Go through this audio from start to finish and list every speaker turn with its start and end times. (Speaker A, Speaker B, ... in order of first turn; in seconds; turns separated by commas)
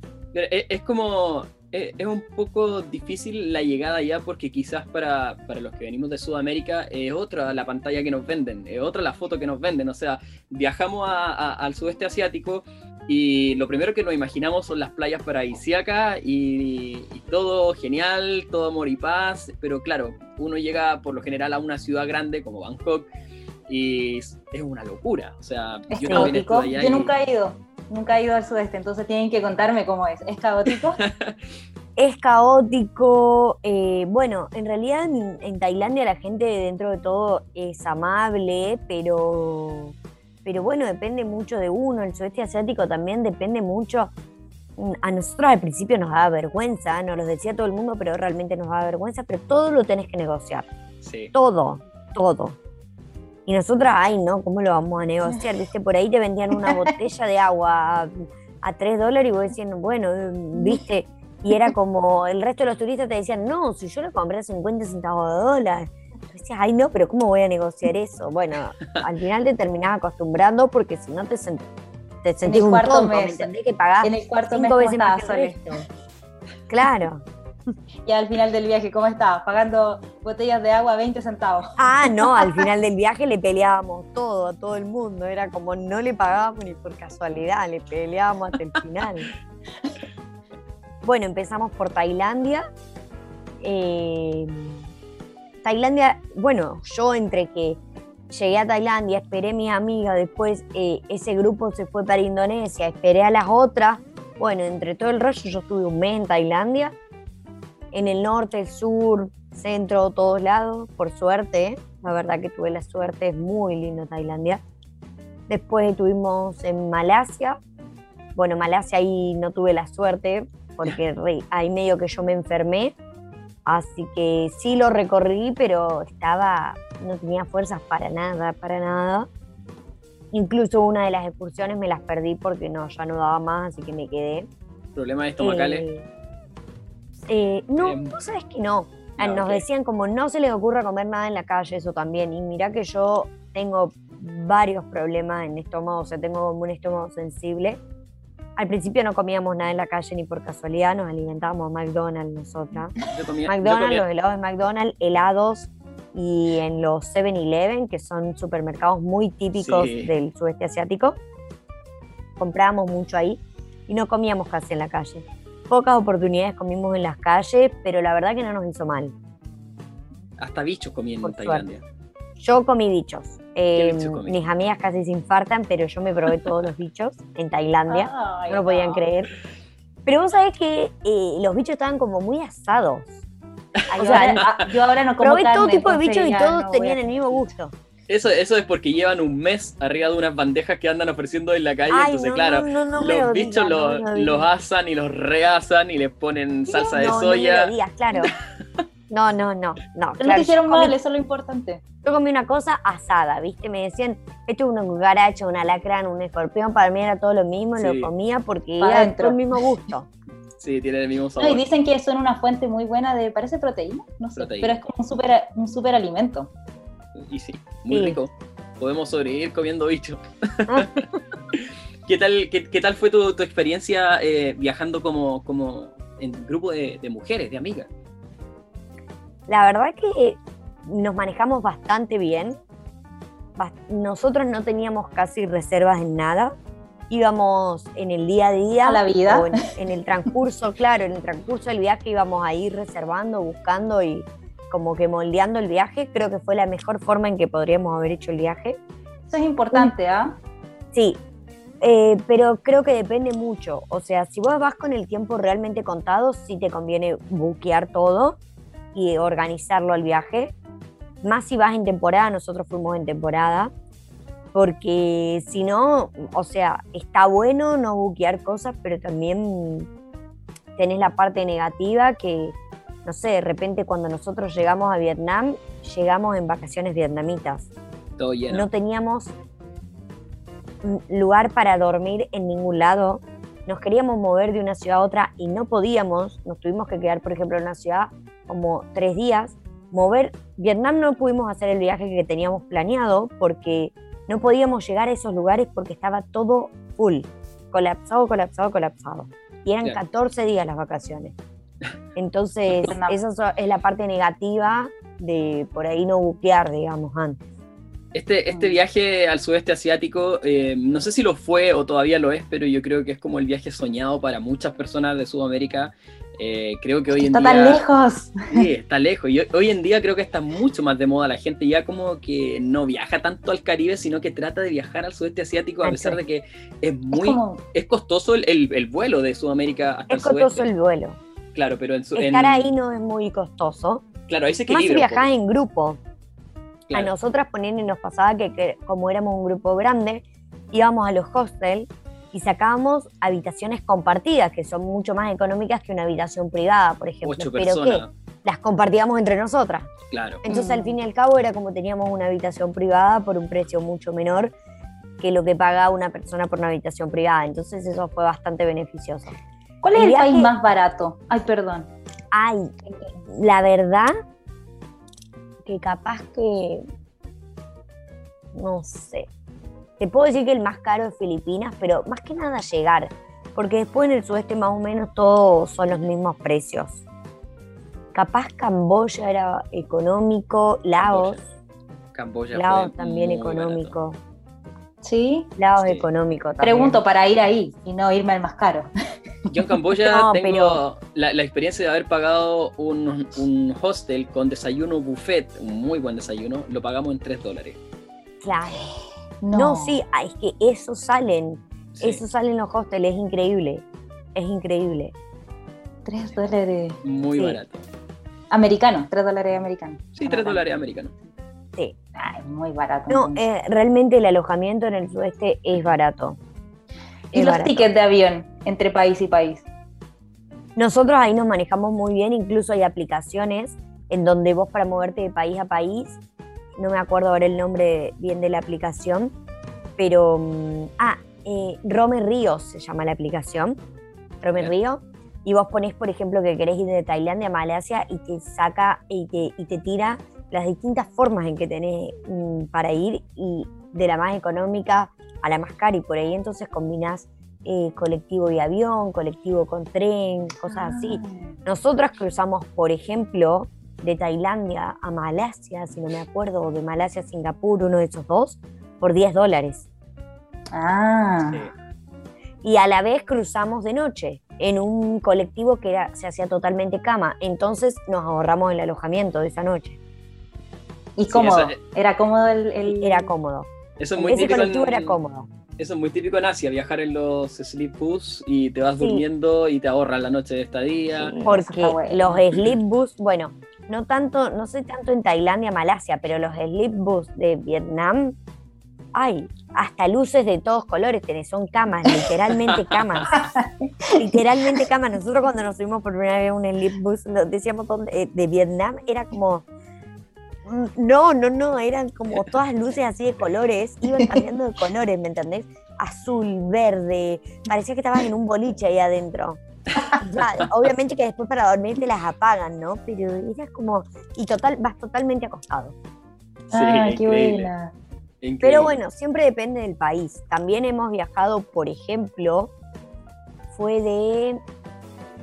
Speaker A: 0.3-23.1, Speaker A: 23.7-27.1, Speaker B: 25.9-31.0, Speaker C: 26.0-26.3, Speaker A: 30.7-31.4, Speaker C: 32.0-44.1, Speaker C: 44.8-50.7, Speaker A: 51.0-51.3, Speaker C: 51.3-52.6, Speaker C: 53.5-71.6, Speaker B: 60.6-60.8, Speaker C: 72.2-75.9, Speaker B: 72.5-73.5, Speaker B: 74.0-75.6, Speaker C: 76.7-77.2, Speaker B: 78.1-82.5, Speaker C: 81.8-89.3, Speaker C: 91.0-92.6, Speaker C: 93.6-94.9, Speaker C: 95.6-97.8, Speaker C: 98.3-107.0, Speaker C: 107.9-114.6, Speaker C: 115.5-117.6, Speaker C: 118.3-123.0, Speaker C: 123.7-129.3, Speaker C: 130.3-134.5, Speaker A: 134.9-135.9, Speaker C: 135.4-136.1, Speaker C: 137.3-147.8, Speaker A: 137.8-138.2, Speaker A: 139.2-139.7, Speaker C: 148.6-152.9, Speaker A: 153.0-154.1, Speaker C: 153.5-161.2, Speaker A: 159.6-160.1, Speaker C: 162.4-169.1, Speaker A: 170.4-171.8, Speaker C: 171.2-171.7, Speaker C: 172.4-179.3, Speaker A: 173.8-174.4, Speaker B: 177.9-179.1, Speaker C: 180.1-183.2, Speaker A: 183.8-184.6, Speaker B: 183.9-187.5, Speaker C: 184.0-184.4, Speaker C: 185.2-187.7, Speaker A: 188.1-198.8, Speaker C: 191.9-194.5, Speaker B: 196.7-197.2, Speaker C: 196.8-198.3, Speaker C: 199.1-200.9, Speaker B: 200.2-201.8, Speaker C: 202.0-210.1, Speaker A: 207.8-208.1, Speaker B: 208.8-209.4, Speaker A: 210.6-211.6, Speaker B: 211.4-216.5, Speaker A: 214.4-214.8, Speaker A: 217.2-227.9, Speaker C: 217.9-218.2, Speaker C: 220.7-221.0, Speaker C: 229.5-232.6, Speaker C: 233.6-236.5, Speaker C: 237.1-248.8, Speaker B: 238.8-239.6, Speaker B: 249.3-250.4, Speaker C: 250.9-251.2, Speaker C: 251.8-258.4, Speaker C: 258.9-260.5, Speaker C: 261.2-263.7, Speaker C: 264.5-269.9, Speaker C: 270.8-277.7, Speaker A: 278.2-278.7, Speaker C: 278.5-279.3, Speaker C: 280.8-301.4, Speaker C: 302.1-307.4, Speaker B: 302.8-303.2, Speaker A: 308.1-317.9, Speaker B: 308.5-308.8, Speaker B: 317.1-318.6, Speaker A: 318.5-330.7, Speaker C: 325.8-326.2, Speaker B: 327.1-327.6, Speaker C: 330.1-331.2, Speaker A: 331.6-332.7, Speaker C: 332.1-334.1, Speaker A: 334.3-335.2, Speaker C: 334.7-336.0, Speaker C: 336.9-349.9, Speaker A: 347.2-348.1, Speaker A: 350.1-350.4, Speaker C: 350.4-354.5, Speaker B: 350.5-350.9, Speaker C: 355.2-359.4, Speaker B: 359.8-361.9, Speaker C: 359.9-360.5, Speaker C: 362.3-364.1, Speaker C: 365.6-366.8, Speaker C: 368.5-369.3, Speaker C: 370.0-377.0, Speaker C: 378.1-381.4, Speaker A: 381.0-381.4, Speaker A: 382.1-383.9, Speaker C: 382.5-384.2, Speaker B: 385.0-385.5, Speaker C: 385.6-387.0, Speaker A: 385.8-386.1, Speaker B: 386.6-388.9, Speaker A: 389.5-397.8, Speaker C: 390.1-390.8, Speaker C: 398.4-398.9, Speaker B: 399.4-400.0, Speaker C: 399.5-403.8, Speaker A: 401.9-402.2, Speaker C: 404.4-405.1, Speaker B: 406.1-407.0, Speaker A: 407.0-407.9, Speaker B: 408.5-410.6, Speaker A: 410.2-411.1, Speaker B: 412.2-413.4, Speaker C: 413.1-416.4, Speaker C: 417.3-417.9, Speaker B: 417.3-419.7, Speaker C: 420.8-426.2, Speaker C: 426.8-429.3, Speaker C: 430.0-433.8, Speaker C: 434.4-459.9, Speaker B: 450.7-451.6, Speaker B: 460.7-461.6, Speaker A: 461.4-461.7, Speaker C: 462.6-470.0, Speaker B: 471.2-473.3, Speaker A: 471.3-471.8, Speaker C: 472.9-475.5, Speaker A: 474.0-475.2, Speaker A: 475.8-481.3, Speaker C: 479.0-479.2, Speaker B: 481.2-482.4, Speaker C: 481.4-488.4, Speaker C: 489.1-493.3, Speaker A: 492.7-493.3, Speaker B: 493.3-494.2, Speaker C: 494.1-499.7, Speaker C: 500.6-509.6, Speaker C: 510.2-516.0, Speaker B: 516.7-517.9, Speaker A: 516.7-517.7, Speaker A: 518.4-519.0, Speaker C: 518.6-522.7, Speaker C: 523.7-524.6